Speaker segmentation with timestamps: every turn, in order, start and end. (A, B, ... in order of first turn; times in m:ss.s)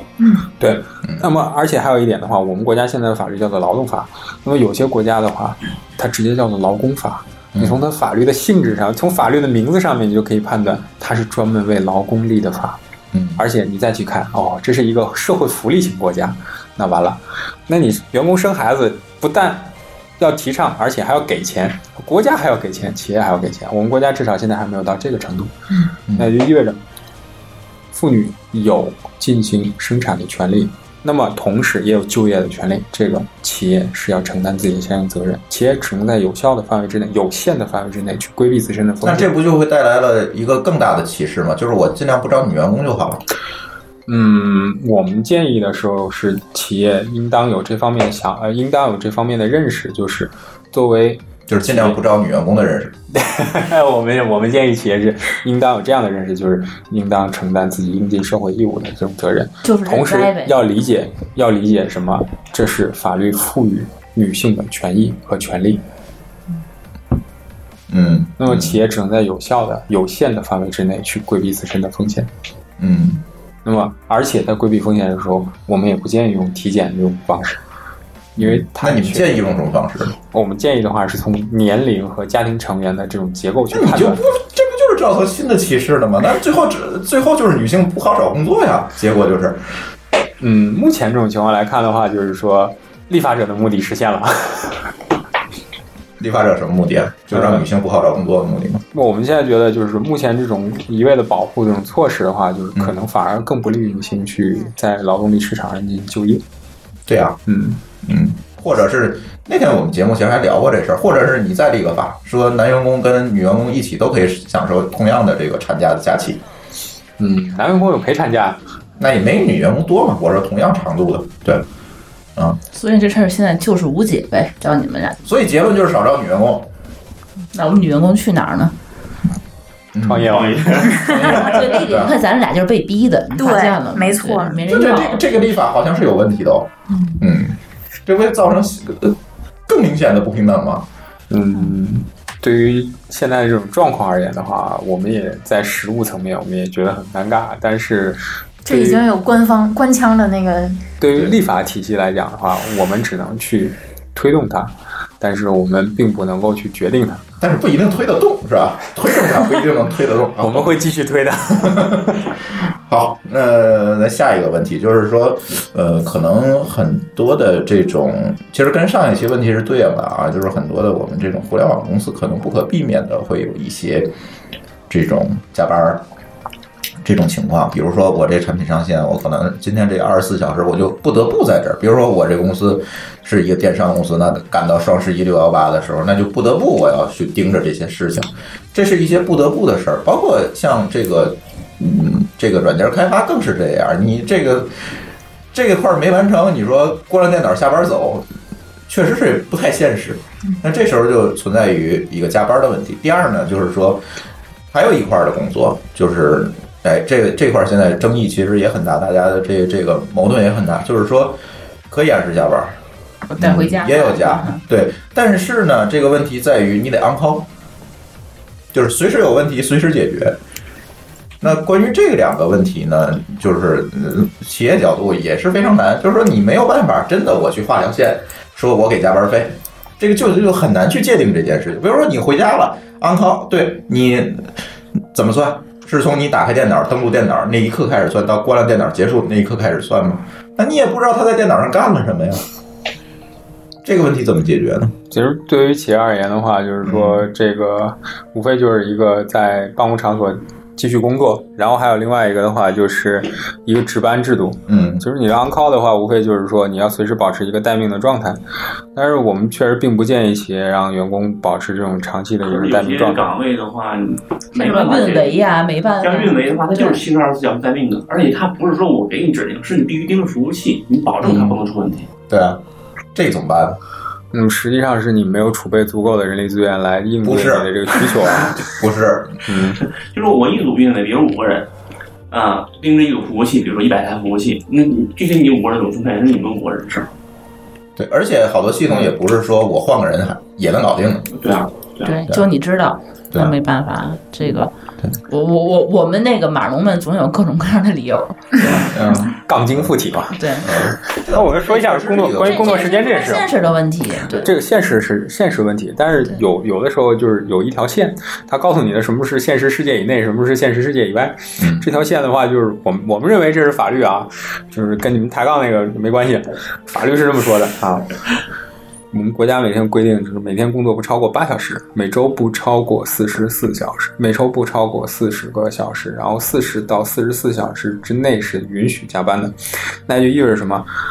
0:00.6-0:12.8 A
0:13.1-0:13.4 B
0:13.4-0:25.5 A
0:26.2-0:26.8 A
0:27.9-0:39.3 A
0:39.0-0:43.2 B
0:44.1-0:52.0 A
0:51.5-0:53.0 B
0:53.1-1:05.8 A
0:59.6-1:00.6 C
1:07.9-1:08.8 B
1:08.4-1:12.3 A
1:12.8-1:13.2 B
1:13.6-1:17.6 A
1:18.4-1:19.4 A
1:18.4-1:20.1 B
1:20.3-1:24.2 A
1:23.7-1:29.8 B
1:30.4-1:34.9 A
1:36.2-1:38.8 B
1:37.3-1:37.6 A
1:38.9-1:46.4 A
1:47.1-1:47.4 B
1:47.5-1:47.8 A
1:48.0-1:56.4 B
1:57.2-1:58.6 A
1:59.0-2:01.7 B
2:02.7-2:05.2 C
2:05.2-2:06.7 B
2:07.5-2:08.8 C
2:09.9-2:10.4 B
2:10.0-2:11.6 A
2:10.4-2:10.8 D
2:11.1-2:15.3 C
2:11.1-2:12.2 B
2:13.4-2:14.6 E
2:14.7-2:20.9 B
2:21.3-2:29.0 A
2:28.7-2:30.8 E
2:31.0-2:37.3 A
2:37.4-2:40.8 B
2:40.4-2:42.3 A
2:41.6-2:42.0 B
2:42.8-2:54.1 B
2:54.9-2:56.0 B
2:57.0-3:14.8 B
3:15.5-3:18.3 B
3:18.9-3:24.0 B
3:24.7-3:32.8 B
3:33.3-3:34.6 C
3:33.4-3:37.5 B
3:38.7-3:40.4 B
3:41.4-3:54.6 B
3:55.1-4:02.4 B
4:03.8-4:05.0 B
4:05.1-4:18.4 A
4:06.8-4:07.3 B
4:14.7-4:15.0 B
4:19.0-4:23.2 A
4:22.4-4:25.4 D
4:24.5-4:27.0 C
4:26.0-4:32.1 D
4:31.2-4:31.6 B
4:32.3-4:32.6 B
4:33.2-4:33.8 B
4:34.3-4:38.7 A
4:37.2-4:39.4 B
4:39.5-4:39.8 A
4:40.1-4:41.7 D
4:42.3-4:47.1 D
4:48.0-4:51.3 B
4:51.3-4:52.2 D
4:52.0-4:54.7 C
4:55.3-4:58.8 C
4:58.8-4:59.9 B
4:59.5-5:00.4 A
5:00.4-5:00.8 C
5:00.6-5:02.9 B
5:01.1-5:03.5 A
5:02.4-5:04.5 C
5:04.3-5:18.2 A
5:11.6-5:11.9 B
5:19.1-5:29.6 A
5:30.1-5:30.9 A